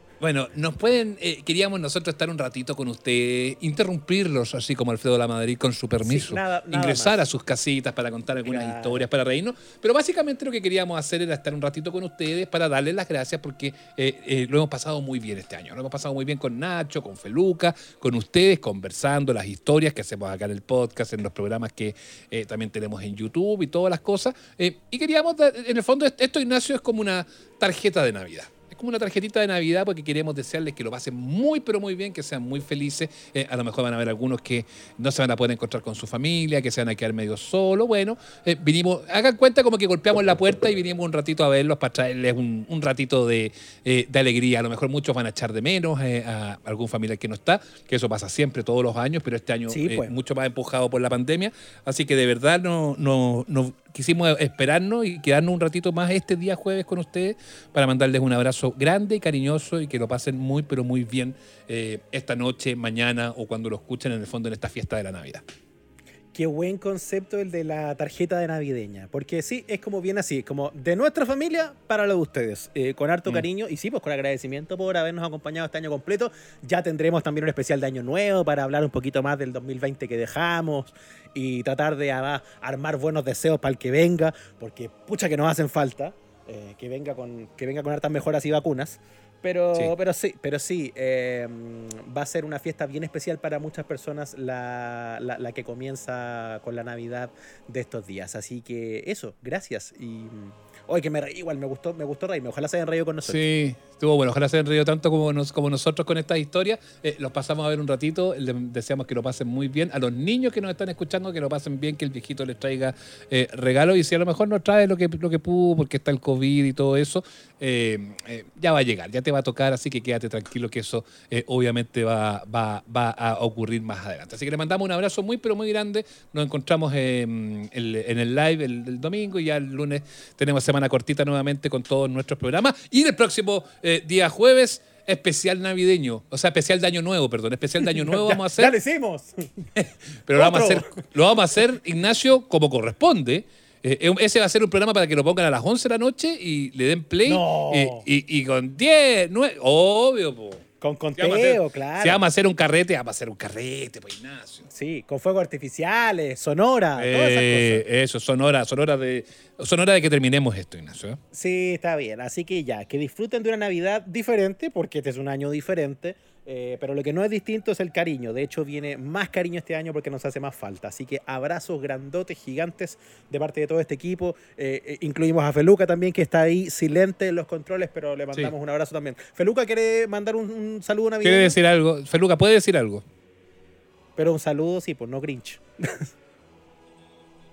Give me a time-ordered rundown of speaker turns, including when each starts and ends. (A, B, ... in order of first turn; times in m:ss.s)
0:00.2-1:05.4 A
0:06.0-0:07.2 B
0:08.5-0:09.1 B
0:49.7-0:50.1 B
1:06.3-1:43.4 B
1:43.3-2:18.8 A
2:17.8-2:19.7 B
2:19.8-2:30.6 A
2:20.4-2:20.9 B
2:27.2-2:28.0 B
2:30.8-2:32.2 B
2:31.2-2:34.7 A
2:34.7-2:37.8 B
2:37.0-2:41.2 A
2:41.3-3:01.6 B
3:01.2-3:03.0 A
3:04.2-3:06.1 B